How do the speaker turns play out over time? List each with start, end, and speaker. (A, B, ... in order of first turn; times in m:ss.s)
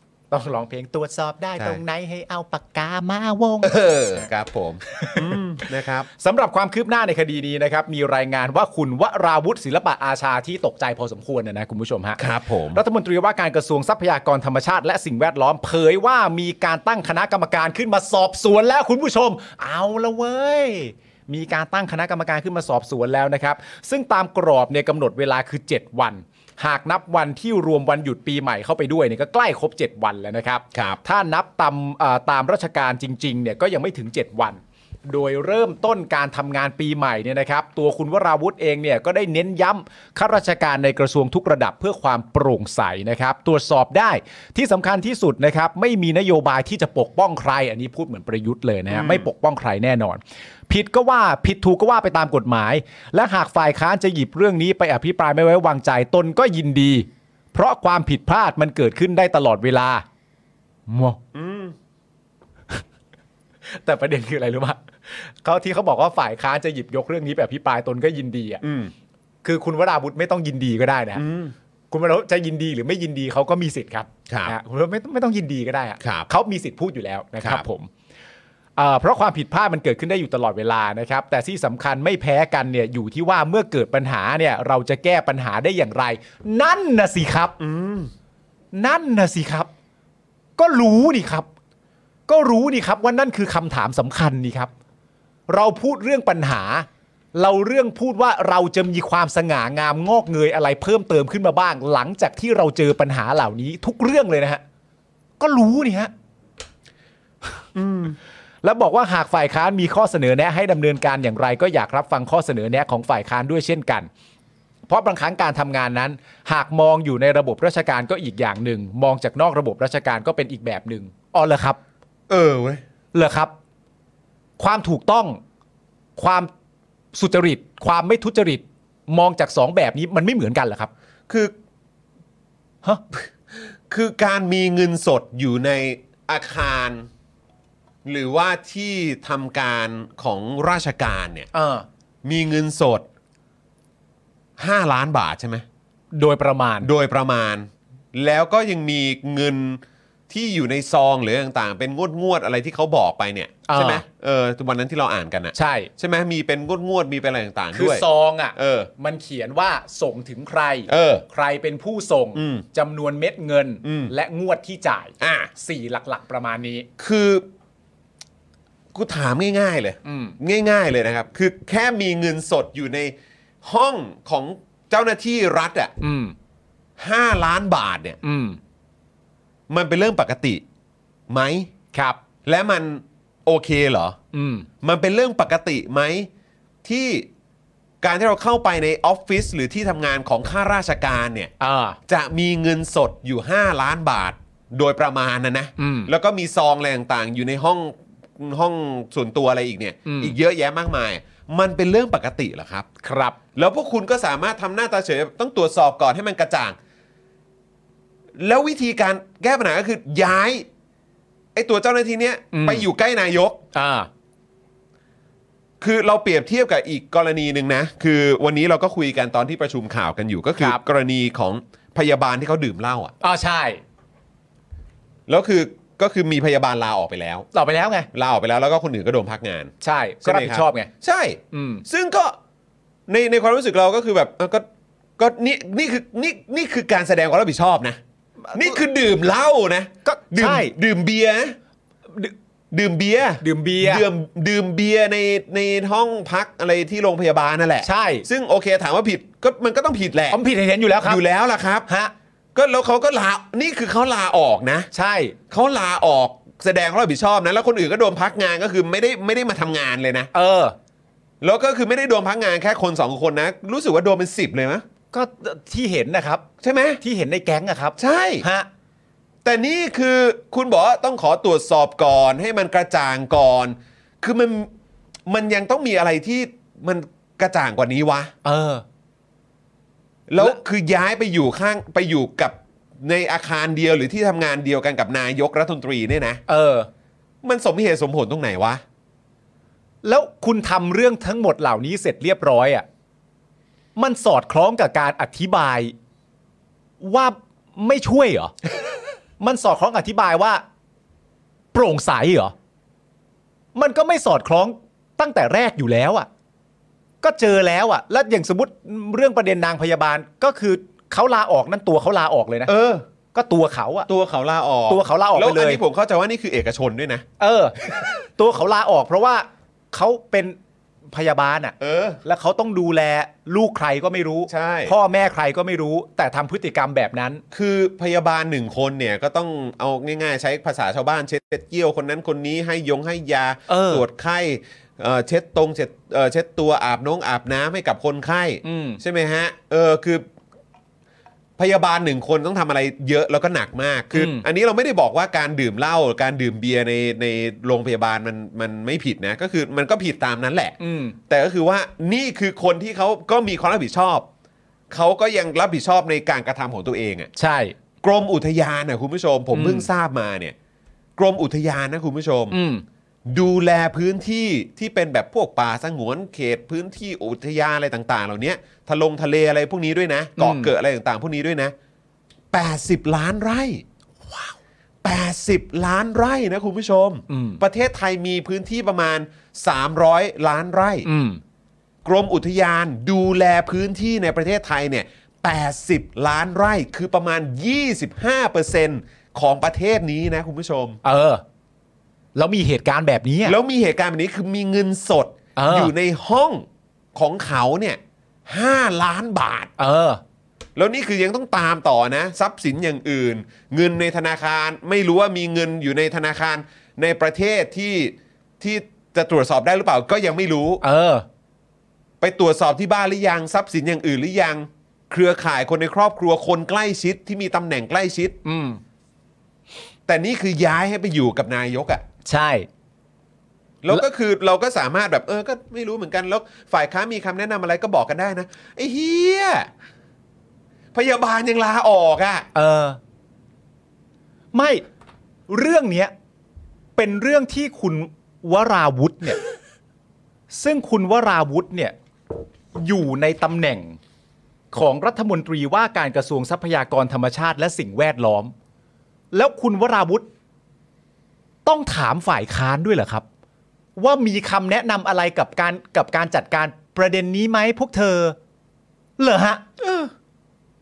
0:00.3-0:04.2 A
0:03.6-0:06.1 B
0:04.9-0:05.4 A
0:06.1-0:12.2 A
0:12.2-0:12.8 B
0:12.7-1:00.0 A
0:30.7-0:31.0 B
0:48.9-0:49.3 B
1:00.9-1:01.2 A
1:01.3-1:01.7 B
1:03.7-1:08.6 A
1:08.6-1:08.9 B
1:09.4-1:11.2 A
1:11.1-1:11.5 B
1:11.9-1:17.9 A
1:16.0-1:16.3 B
1:18.8-1:27.6 A
1:27.6-1:28.1 B
1:28.7-1:29.7 A
1:30.6-1:31.5 A
1:32.3-1:34.7 A
1:35.5-1:44.6 A
1:45.4-1:46.1 A
1:47.7-1:48.2 B
1:48.6-1:54.1 A
1:54.9-2:01.8 A
2:02.3-2:02.8 B
2:03.1-2:03.5 A
2:04.6-2:05.4 A
2:06.2-2:06.5 A
2:07.1-2:10.9 A
2:13.9-2:17.1 B
2:18.0-2:21.5 B
2:21.5-2:21.8 A
2:22.2-2:23.0 B
2:24.6-2:25.6 B
2:26.1-2:26.9 A
2:26.8-2:38.0 B
2:33.7-2:34.0 A
2:35.5-2:35.9 A
2:37.7-2:46.9 A
2:38.6-2:38.9 B
2:40.9-2:41.2 B
2:42.3-2:42.6 B
2:43.8-2:44.1 B
2:45.2-2:45.5 B
2:47.0-2:47.4 B
2:48.9-2:53.1 B
2:50.0-2:50.4 A
2:53.6-2:55.9 B
2:56.0-2:56.3 A
2:57.0-2:58.2 B
2:58.2-2:58.6 A
2:59.7-3:00.6 B
3:01.3-3:01.7 B
3:01.9-3:02.2 A
3:02.4-3:04.2 B
3:04.3-3:04.7 A
3:04.8-3:06.3 B
3:06.8-3:07.3 B
3:08.0-3:11.5 B
3:11.6-3:12.0 A
3:12.1-3:22.9 B
3:15.8-3:16.1 A
3:20.0-3:20.3 A
3:23.0-3:23.4 A
3:23.5-3:26.8 B
3:28.4-3:30.6 B
3:31.5-3:33.6 B
3:32.5-3:32.8 A
3:33.7-3:34.1 A
3:35.8-3:43.1 B
3:43.2-3:43.8 A
3:45.3-3:47.5 B
3:47.5-3:48.1 A
3:48.1-3:49.7 B
3:49.8-3:50.9 A
3:50.2-3:52.3 B
3:51.5-3:51.8 A
3:53.1-3:54.6 B
3:55.2-3:58.0 B
3:58.4-3:58.8 A
3:58.5-4:01.6 B
4:00.0-4:00.7 A
4:02.7-4:10.4 B
4:03.4-4:04.0 A
4:07.8-4:08.2 A
4:10.3-4:11.2 A
4:11.0-4:11.9 B
4:11.9-4:12.1 A
4:12.5-4:14.9 B
4:14.9-4:15.4 A
4:15.5-4:20.3 B
4:20.3-4:20.8 A
4:21.4-4:24.8 B
4:25.1-4:26.4 A
4:26.6-4:27.0 B
4:27.0-4:28.7 A
4:28.0-4:28.4 B
4:29.4-4:34.7 B
4:35.3-4:38.3 B
4:38.4-4:38.8 A
4:40.3-4:46.4 B
4:46.5-4:46.9 A
4:47.4-4:48.8 B
4:50.0-4:52.8 A
4:54.0-4:55.9 A
4:57.0-4:58.5 A
4:59.4-5:00.6 A
5:01.7-5:02.5 A
5:03.7-5:06.3 A
5:07.2-5:12.7 A
5:12.7-5:13.0 B
5:13.3-5:14.1 A
5:14.1-5:17.2 B
5:14.9-5:15.8 A
5:17.4-5:20.6 A
5:21.1-5:27.4 A
5:21.8-5:22.2 B
5:24.5-5:24.9 B
5:27.5-5:40.2 B
5:33.7-5:34.0 A
5:38.6-5:39.0 A
5:41.6-5:50.8 B
5:44.1-5:44.4 A
5:50.8-5:51.2 A
5:51.3-5:54.2 B
5:54.9-5:57.3 B
5:57.4-5:57.7 A
5:58.0-6:00.5 B
5:59.5-5:59.9 A
6:01.2-6:02.6 B
6:02.5-6:02.8 A
6:03.3-6:11.7 B
6:10.4-6:10.7 A
6:12.5-6:13.8 B
6:15.0-6:21.1 B
6:17.3-6:17.6 A
6:21.0-6:21.4 A
6:22.0-6:31.0 B
6:31.0-6:31.4 A
6:32.4-6:33.6 A
6:33.4-6:39.7 B
6:35.6-6:35.9 A
6:39.8-6:40.2 A
6:40.8-6:50.8 B
6:50.8-6:51.2 A
6:52.2-6:58.4 B
6:58.4-6:58.8 A
7:00.1-7:02.0 B
7:02.2-7:02.7 A
7:03.8-7:09.7 B
7:10.9-7:12.5 B
7:12.5-7:13.0 A
7:14.5-7:14.8 A
7:15.5-7:16.1 A
7:17.0-7:19.4 A
7:20.5-7:21.9 A
7:22.8-7:24.0 A
7:24.7-7:28.5 A
7:29.3-7:30.3 A
7:31.6-7:33.2 A
7:34.0-7:38.4 A
7:39.2-7:39.6 A
7:39.8-7:40.1 B